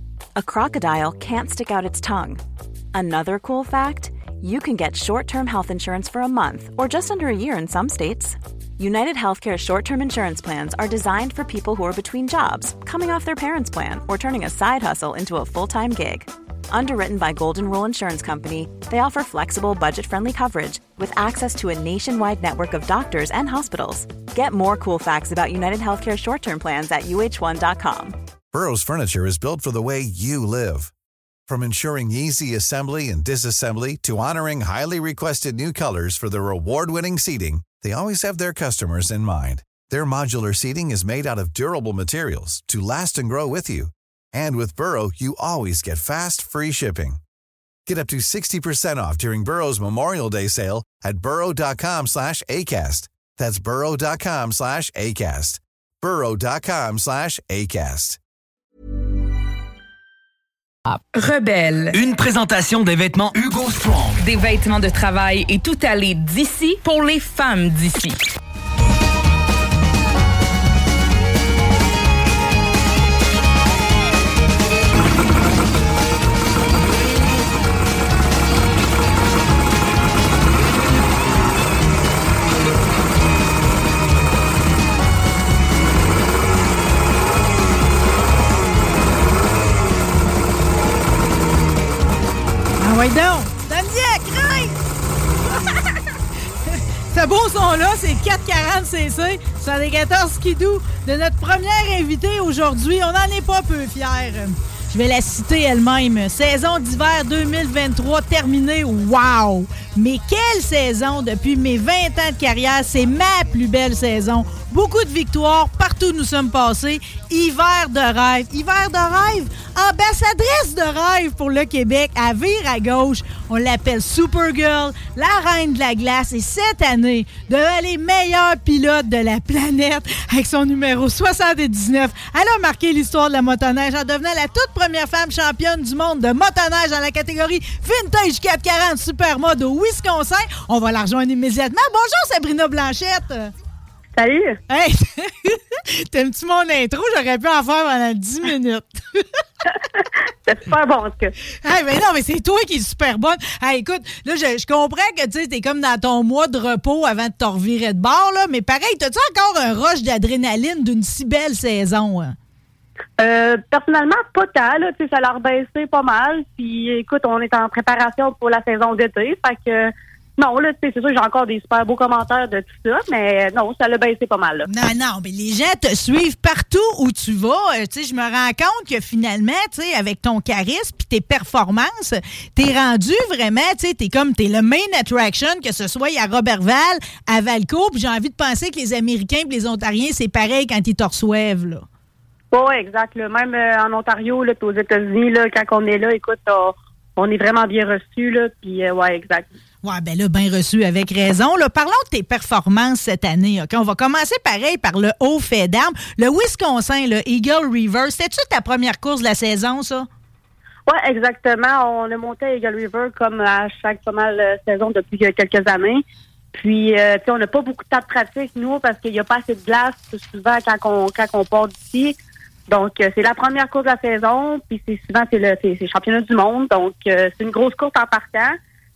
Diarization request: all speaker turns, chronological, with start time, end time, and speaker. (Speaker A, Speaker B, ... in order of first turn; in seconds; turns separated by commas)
Speaker A: 0.4-2.4, Speaker A: 2.9-28.2, Speaker B: 28.5-30.9, Speaker B: 31.5-47.2, Speaker B: 47.9-58.2, Speaker C: 60.9-62.0, Speaker D: 61.9-64.2, Speaker C: 64.2-68.2, Speaker E: 92.8-94.7, Speaker E: 97.1-143.5, Speaker F: 144.2-144.6, Speaker E: 144.7-149.0, Speaker F: 150.5-151.3, Speaker E: 151.6-162.3, Speaker F: 163.2-174.7, Speaker E: 174.7-191.8, Speaker F: 192.5-199.5, Speaker E: 199.8-210.1, Speaker F: 210.9-216.0, Speaker F: 216.5-222.2, Speaker F: 222.7-228.6